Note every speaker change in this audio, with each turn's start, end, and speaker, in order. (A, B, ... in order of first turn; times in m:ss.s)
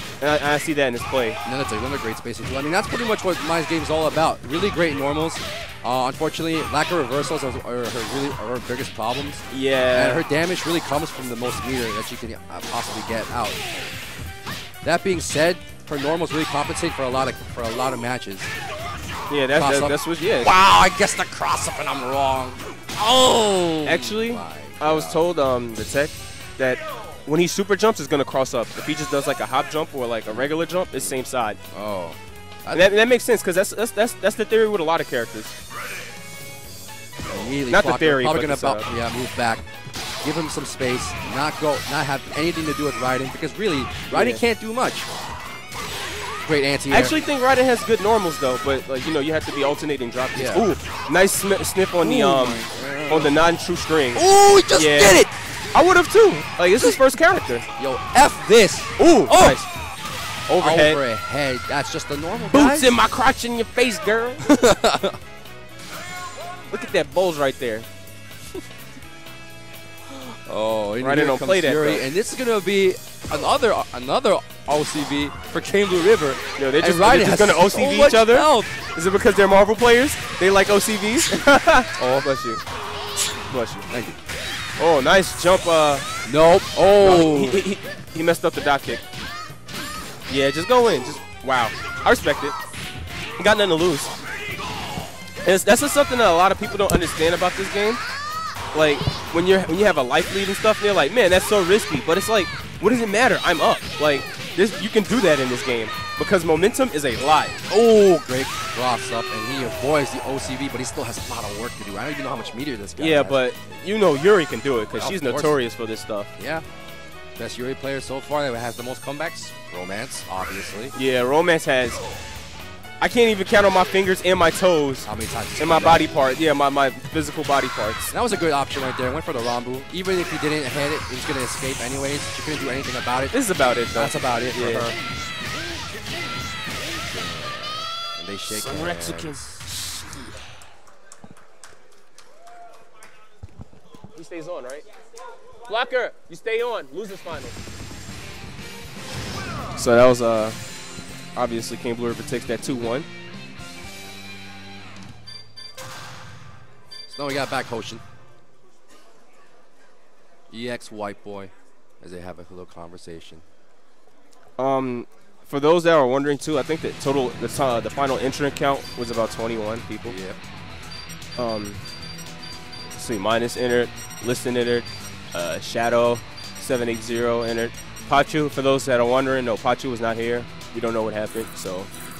0:00.2-0:01.4 A
0:01.4-0:13.6 B
0:09.5-0:10.2 A
0:14.8-0:18.5 B
0:19.3-0:20.5 A
0:19.5-0:25.2 B
0:23.8-0:31.6 A
0:31.7-0:32.9 B
0:32.7-0:35.5 A
0:37.2-0:39.6 B
0:37.7-0:38.9 A
0:40.2-0:45.1 B
0:44.1-0:44.4 A
0:46.4-0:47.1 B
0:46.9-0:55.2 A
0:50.3-0:50.7 B
0:52.0-0:53.4 B
0:54.1-0:55.3 B
0:55.7-0:57.6 A
0:57.8-0:59.6 B
0:59.0-0:59.7 A
1:00.5-1:01.0 A
1:00.6-1:02.9 B
1:02.5-1:04.4 A
1:04.4-1:05.2 B
1:06.7-1:07.9 A
1:10.1-1:18.8 B
1:11.0-1:12.0 A
1:16.6-1:22.6 A
1:22.0-1:22.3 B
1:23.5-1:23.9 A
1:23.9-1:24.2 B
1:24.8-1:26.1 A
1:26.2-1:27.6 B
1:27.0-1:29.0 A
1:30.3-1:32.6 A
1:33.4-1:34.1 A
1:35.4-1:38.0 A
1:38.7-1:47.6 A
1:47.7-1:53.4 B
1:53.0-1:56.3 A
1:55.0-1:55.5 B
1:56.4-1:56.6 B
1:57.4-2:00.9 B
2:01.0-2:02.0 A
2:03.0-2:08.1 A
2:05.0-2:06.1 B
2:08.1-2:13.4 B
2:13.3-2:14.9 A
2:13.9-2:14.9 B
2:17.0-2:19.7 B
2:18.5-2:19.4 A
2:24.1-2:24.8 A
2:25.7-2:27.6 A
2:29.8-2:30.6 A
2:31.4-2:33.1 A
2:37.1-2:38.0 B
2:40.5-2:43.4 B
2:44.6-2:50.2 A
2:50.0-2:50.4 B
2:51.4-2:51.8 A
2:52.9-3:01.9 A